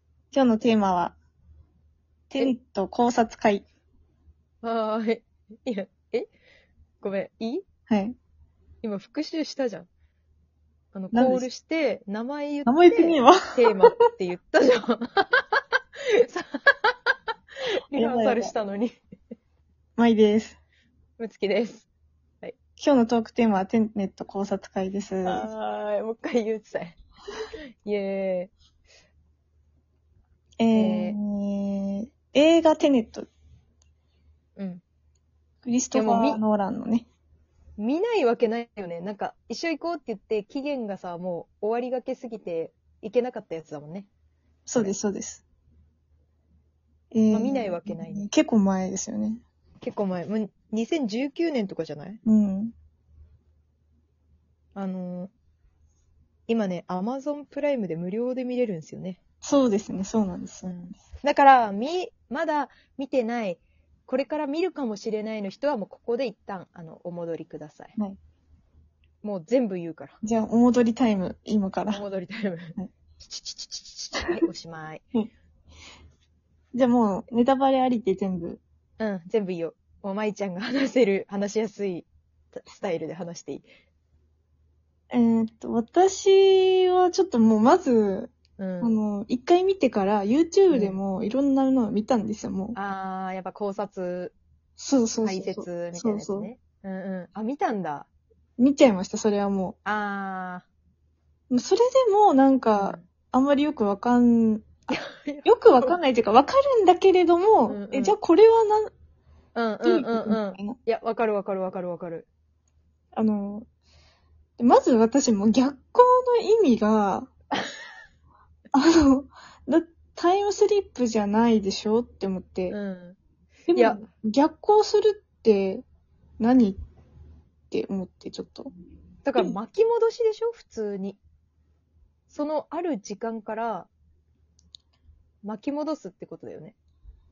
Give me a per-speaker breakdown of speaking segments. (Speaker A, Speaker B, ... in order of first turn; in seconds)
Speaker A: 0.3-1.2, 2.3-3.6, 7.9-8.2, 11.1-11.5, 12.7-13.9, 17.9-18.5, 20.0-20.6, 22.8-25.5, 30.6-33.3, 35.6-37.1, 44.7-45.4, 47.1-49.4, 52.3-52.7, 59.4-60.9, 70.2-72.0, 76.7-78.6, 85.1-92.8, 94.8-96.5, 98.6-99.8, 101.5-108.9, 109.8-110.8, 113.2-113.7, 114.6-117.3, 118.7-122.8, 123.7-125.8, 126.4-126.8, 127.7-128.7
Speaker B: 4.6-6.3, 7.0-7.6, 8.8-9.9, 10.9-15.6, 16.2-16.9, 17.9-18.9, 21.2-21.9, 25.2-27.0, 27.8-28.5, 30.7-31.2, 34.6-34.8, 35.9-36.4, 37.8-44.1, 47.3-48.3, 49.8-52.2, 54.7-55.3, 56.5-59.2, 60.6-68.0, 69.2-70.2, 71.9-75.1, 79.0-83.7, 88.6-89.0, 90.7-91.0, 92.8-94.3, 95.2-98.1, 99.8-100.7, 102.8-103.0, 104.9-106.0, 107.7-108.2, 109.5-112.3, 122.7-123.2, 123.8-124.0, 129.2-131.2, 132.3-133.9, 135.4-136.8